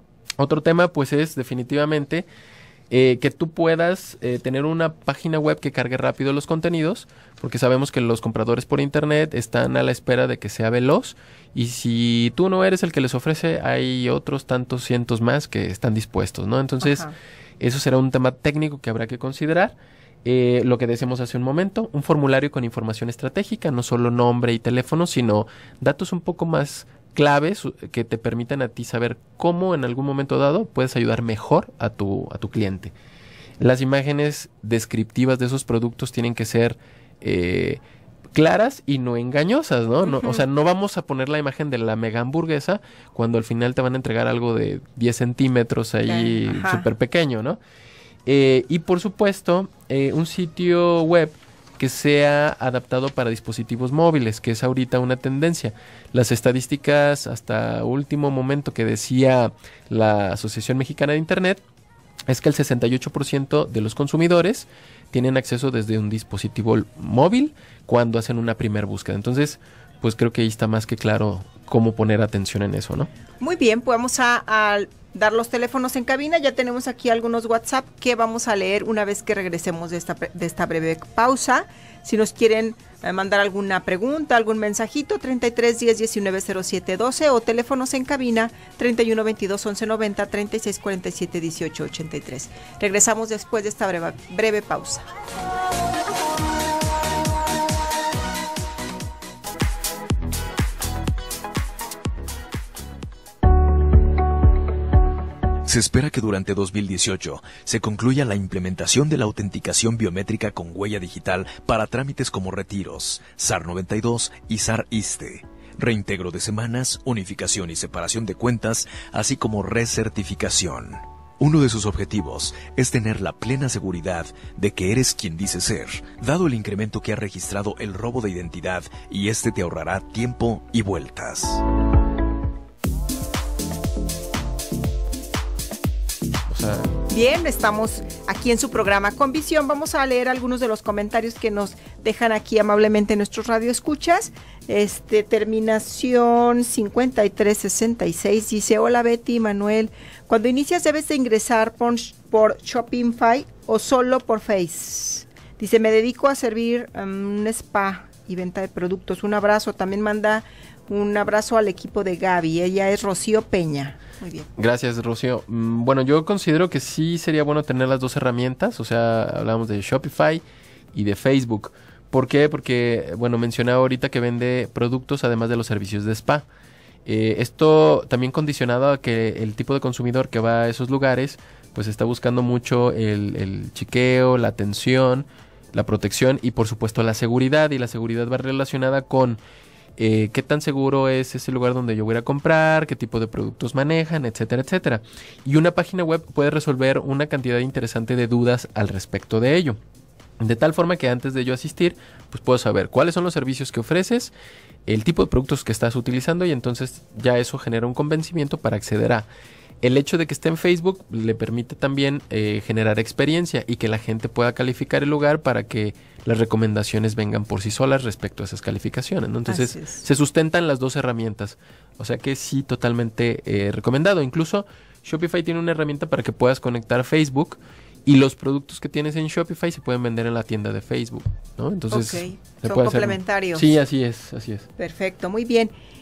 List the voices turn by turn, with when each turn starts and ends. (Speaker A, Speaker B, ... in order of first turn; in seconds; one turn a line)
Speaker A: 0.4-2.2
Speaker A: 2.9-17.1
Speaker B: 16.8-17.1
Speaker A: 17.6-32.9
Speaker A: 33.6-37.8
Speaker A: 38.3-47.6
Speaker B: 40.0-40.4
Speaker B: 46.1-46.9
Speaker A: 48.2-61.6
Speaker A: 62.3-73.1
Speaker B: 73.4-95.1
Speaker C: 105.6-131.6
Speaker A: 136.5-137.0
Speaker B: 137.1-164.5
Speaker A: 164.6-170.4
Speaker A: 170.9-176.4
Speaker A: 177.1-189.4
Speaker A: 190.0-199.8
Speaker A: 200.4-204.3
Speaker A: 204.9-209.3
Speaker A: 209.8-234.7
Speaker B: 219.5-220.0
Speaker B: 231.9-233.7
Speaker B: 234.8-235.7